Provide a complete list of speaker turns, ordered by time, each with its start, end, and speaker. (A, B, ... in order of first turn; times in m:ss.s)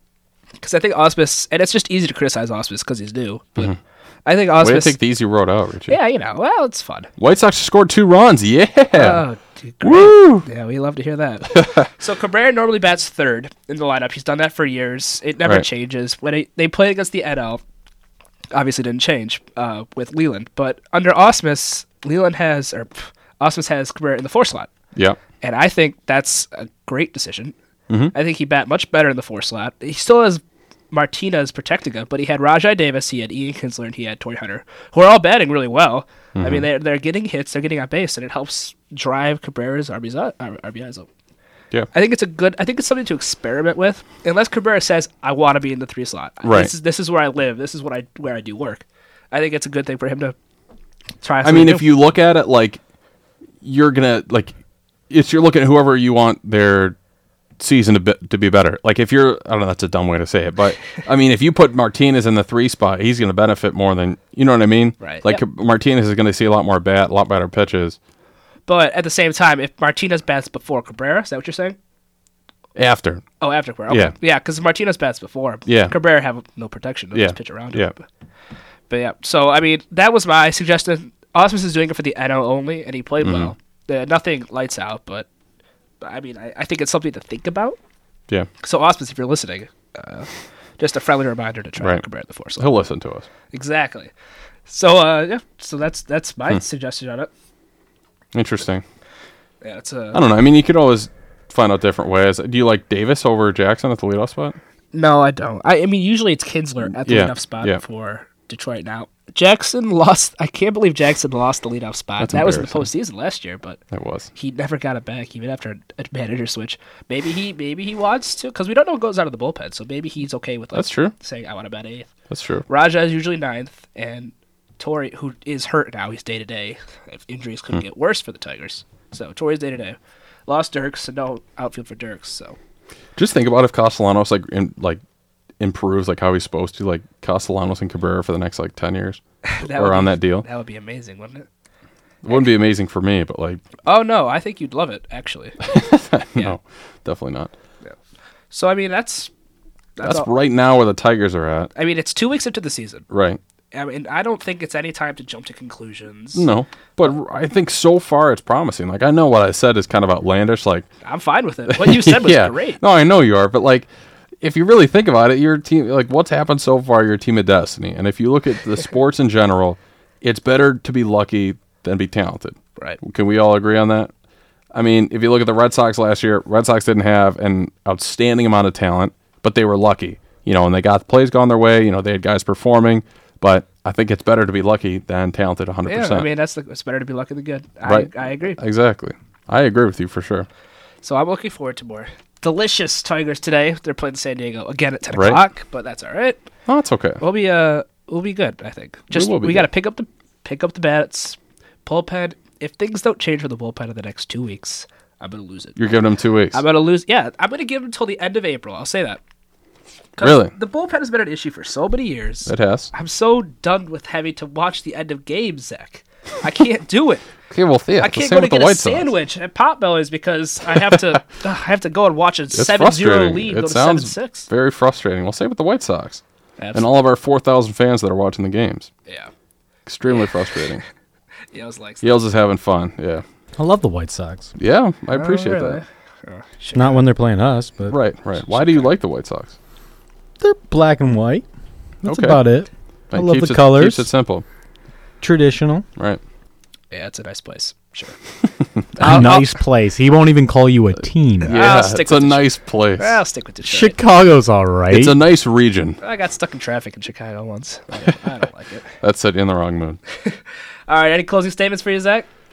0:00.6-0:03.7 A
0:04.3-0:05.0 A
0:04.6-0:06.0 B
0:05.9-0:07.1 A
0:07.2-0:09.2 B
0:08.9-0:17.6 A
0:09.8-0:10.5 B
0:11.6-0:11.9 B
0:18.5-0:24.7 A
0:25.4-0:27.6 A
0:27.9-0:28.1 B
0:28.1-0:41.1 A
0:36.4-0:36.6 B
0:41.9-0:50.4 A
0:46.4-0:46.7 B
0:51.2-0:51.9 A
0:51.4-0:52.8 B
0:53.6-0:54.5 B
0:55.1-0:57.0 B
0:57.6-1:08.0 B
1:05.0-1:05.4 A
1:08.7-1:11.8 A
1:12.8-1:13.2 B
1:13.4-1:18.0 A
1:13.9-1:14.2 B
1:15.7-1:15.9 B
1:17.2-1:17.9 B
1:18.9-1:25.3 A
1:23.2-1:23.5 B
1:26.0-1:27.8 A
1:28.6-1:32.8 A
1:32.6-1:33.3 B
1:33.5-1:34.1 A
1:34.7-1:37.3 A
1:38.3-1:38.8 B
1:39.6-1:40.2 A
1:40.1-1:44.6 B
1:44.9-1:53.8 A
1:46.9-1:47.8 B
1:52.2-1:52.8 B
1:53.9-1:54.3 B
1:54.4-2:02.1 A
2:00.7-2:01.1 B
2:02.3-2:02.6 B
2:02.7-2:12.6 A
2:13.2-2:15.0 B
2:15.6-2:20.5 B
2:19.4-2:21.5 A
2:22.2-2:23.6 B
2:23.8-2:25.7 A
2:25.6-2:27.5 B
2:28.5-2:29.3 A
2:30.0-2:30.3 A
2:30.0-2:31.7 B
2:31.8-2:33.0 A
2:33.1-2:33.4 B
2:33.7-2:36.5 A
2:36.4-2:40.9 B
2:41.0-2:42.8 A
2:41.7-2:43.9 B
2:44.4-2:54.1 B
2:54.7-3:06.3 B
3:05.9-3:08.6 A
3:07.8-3:10.5 B
3:11.0-3:16.4 A
3:15.1-3:15.4 B
3:16.7-3:17.2 B
3:17.2-3:25.8 A
3:19.1-3:19.7 B
3:25.8-3:26.6 B
3:26.5-3:29.2 A
3:30.2-3:37.3 A
3:30.2-3:30.5 B
3:32.5-3:32.9 B
3:37.5-3:39.1 B
3:38.0-3:44.5 A
3:40.7-3:41.0 B
3:42.5-3:46.2 B
3:46.6-3:46.9 A
3:46.7-3:48.9 B
3:49.9-3:50.8 B
3:51.5-3:52.1 A
3:52.0-3:53.2 B
3:53.6-3:54.5 C
3:54.6-3:55.8 B
3:55.1-3:57.1 A
3:56.8-3:58.0 C
3:57.9-3:59.6 B
4:00.4-4:01.4 C
4:02.0-4:02.4 B
4:02.0-4:04.1 C
4:03.1-4:04.4 B
4:05.2-4:05.8 C
4:06.9-4:08.2 A
4:08.6-4:09.2 B
4:09.0-4:09.6 A
4:09.0-4:11.6 C
4:11.4-4:12.5 A
4:11.4-4:13.2 B
4:13.0-4:14.0 A
4:13.6-4:15.2 C
4:14.9-4:16.0 B
4:16.0-4:18.9 A
4:19.0-4:20.0 B
4:20.1-4:22.3 A